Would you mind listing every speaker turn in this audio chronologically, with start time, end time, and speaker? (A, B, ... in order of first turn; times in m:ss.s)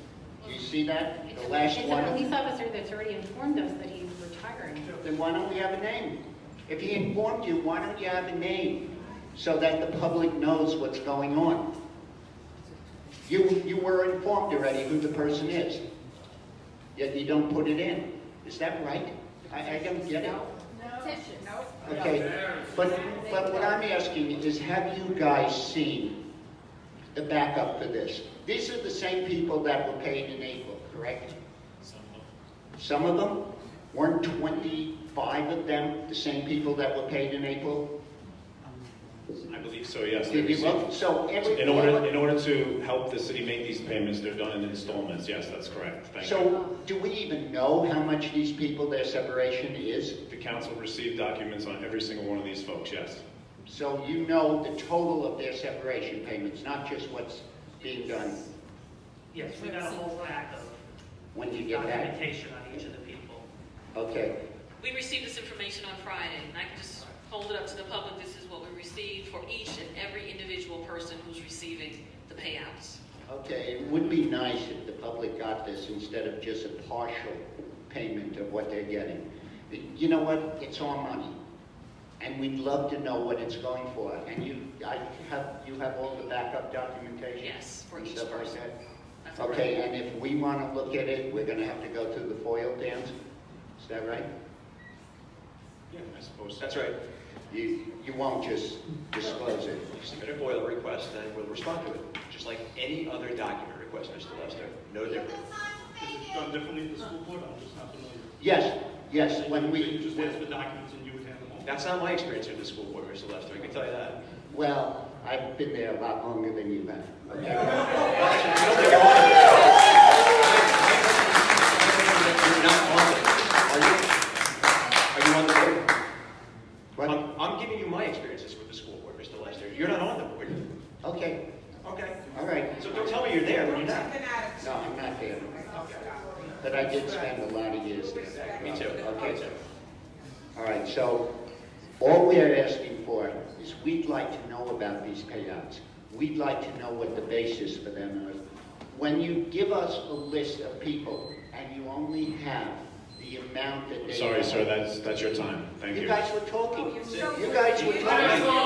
0:00.5-0:02.2 A
0:01.3-0:05.0 B
0:05.0-0:11.7 A
0:13.3-0:15.8 A
0:17.0-0:20.4 A
0:21.8-0:26.2 A
0:27.1-0:31.4 A
0:31.8-0:32.3 C
0:32.8-0:33.4 A
0:33.9-0:37.9 A
0:39.5-0:40.9 C
0:40.3-0:42.1 A
0:41.4-0:46.6 C
0:46.2-0:50.2 A
0:50.3-0:53.2 C
0:53.7-0:58.4 A
0:59.3-1:00.8 D
1:01.4-1:02.1 A
1:01.6-1:03.4 D
1:03.9-1:04.4 A
1:04.8-1:13.0 E
1:13.3-1:21.4 A
1:22.2-1:28.7 A
1:27.4-1:28.6 E
1:29.2-1:29.7 E
1:29.4-1:33.1 A
1:33.8-1:34.3 A
1:35.9-1:36.9 C
1:36.6-1:37.0 F
1:37.5-1:39.8 A
1:39.9-1:45.5 F
1:46.0-1:48.3 G
1:48.4-1:50.2 A
1:49.2-1:51.6 G
1:51.6-1:54.2 F
1:54.5-1:57.8 A
1:58.0-2:04.2 F
2:05.1-2:05.9 F
2:07.0-2:10.6 F
2:11.0-2:11.4 A
2:11.8-2:12.2 F
2:12.3-2:13.0 A
2:12.8-2:14.2 F
2:14.6-2:15.6 A
2:16.6-2:19.4 A
2:18.6-2:19.6 F
2:20.6-2:21.2 A
2:22.0-2:28.4 A
2:28.9-2:34.6 A
2:34.0-2:36.2 C
2:35.9-2:36.9 A
2:37.4-2:38.4 A